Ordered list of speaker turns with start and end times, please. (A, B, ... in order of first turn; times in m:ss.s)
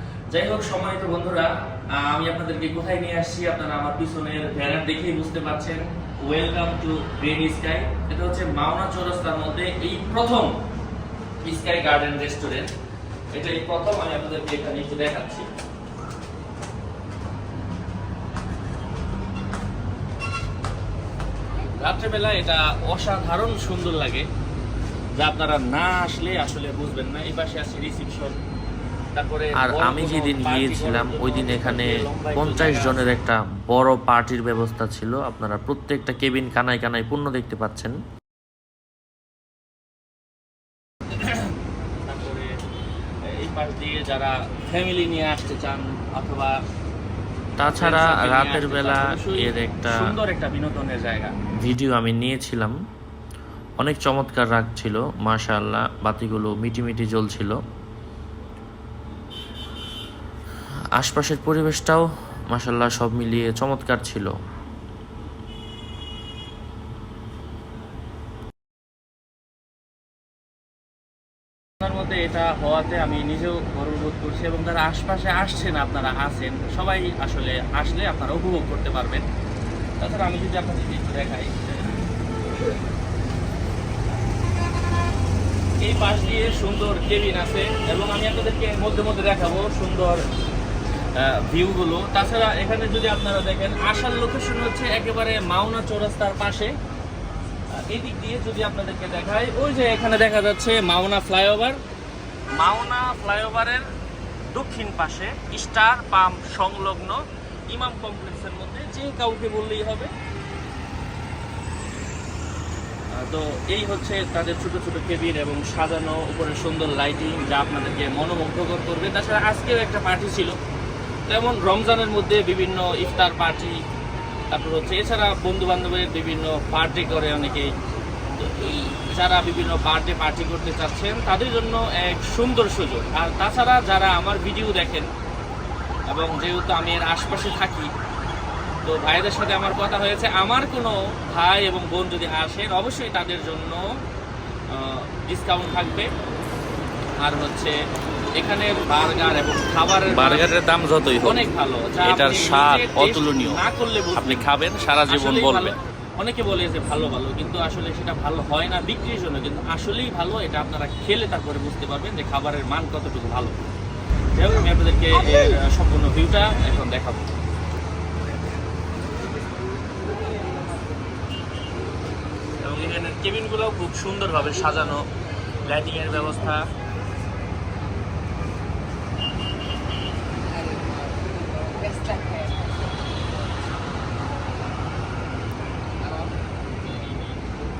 0:00.3-0:10.5 A
0:11.4-0:12.7 A
0:13.3-0:15.5 A
0:21.7-0:24.3 A
0:25.1-0:28.4 A
0:29.1-0:33.1 A
0:29.6-0:38.0 B
0:41.1-0:42.5 A
0:43.3-0:46.6 A
0:47.6-0:50.1 B
0:47.7-0:51.3 A
0:51.6-0:52.8 B
0:53.8-0:57.6 B
1:01.0-1:04.3 B
1:11.8-1:19.2 A
1:20.0-1:21.6 A
1:25.8-1:30.2 A
1:31.1-1:36.7 A
1:37.8-1:41.8 A
1:42.6-1:43.8 A
1:44.5-1:50.1 A
1:53.1-2:00.6 A
2:01.3-2:03.8 A
2:04.5-2:07.7 A
2:08.4-2:15.1 A
2:16.1-2:17.9 A
2:18.8-2:23.8 A
2:24.7-2:26.1 A
2:27.2-2:27.7 A
2:28.4-2:30.5 A
2:30.1-2:31.4 B
2:31.2-2:43.6 A
2:32.0-2:33.6 B
2:34.2-2:35.7 B
2:44.3-2:47.2 A
2:52.6-2:55.1 A
2:55.6-2:56.6 A